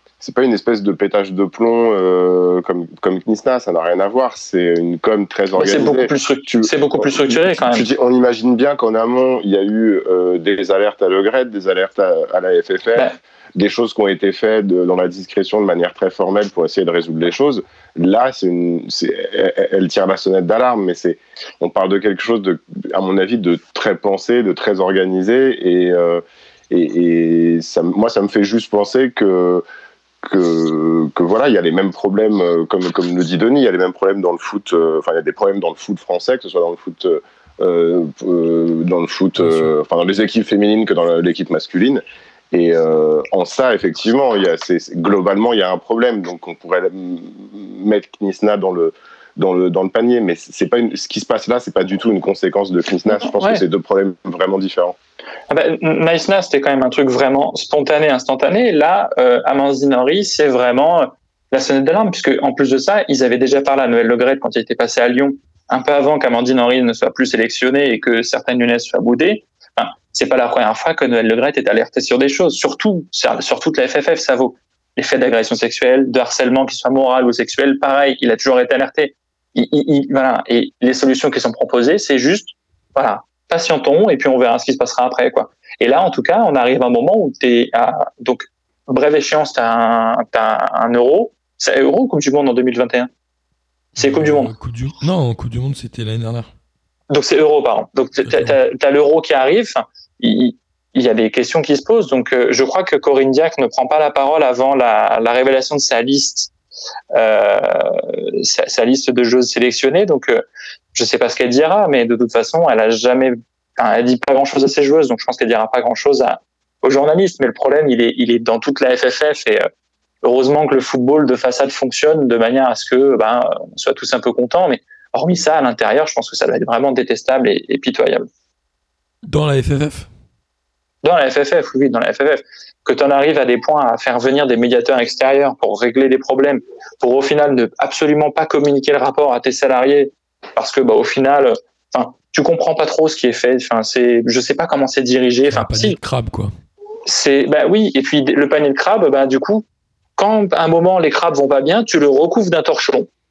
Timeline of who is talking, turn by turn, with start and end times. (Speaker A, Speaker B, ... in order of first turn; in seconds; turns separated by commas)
Speaker A: 0.2-29.6, Speaker B: 5.5-7.9, Speaker A: 30.2-55.0, Speaker C: 39.4-39.7, Speaker B: 53.1-53.6, Speaker B: 55.5-93.1, Speaker B: 94.0-94.5, Speaker C: 94.0-96.5, Speaker B: 97.1-106.5, Speaker C: 98.2-98.5, Speaker B: 107.1-119.7, Speaker B: 120.2-128.3, Speaker C: 129.2-130.1, Speaker B: 131.0-146.0, Speaker C: 145.5-146.5, Speaker B: 147.1-149.6, Speaker B: 150.2-153.1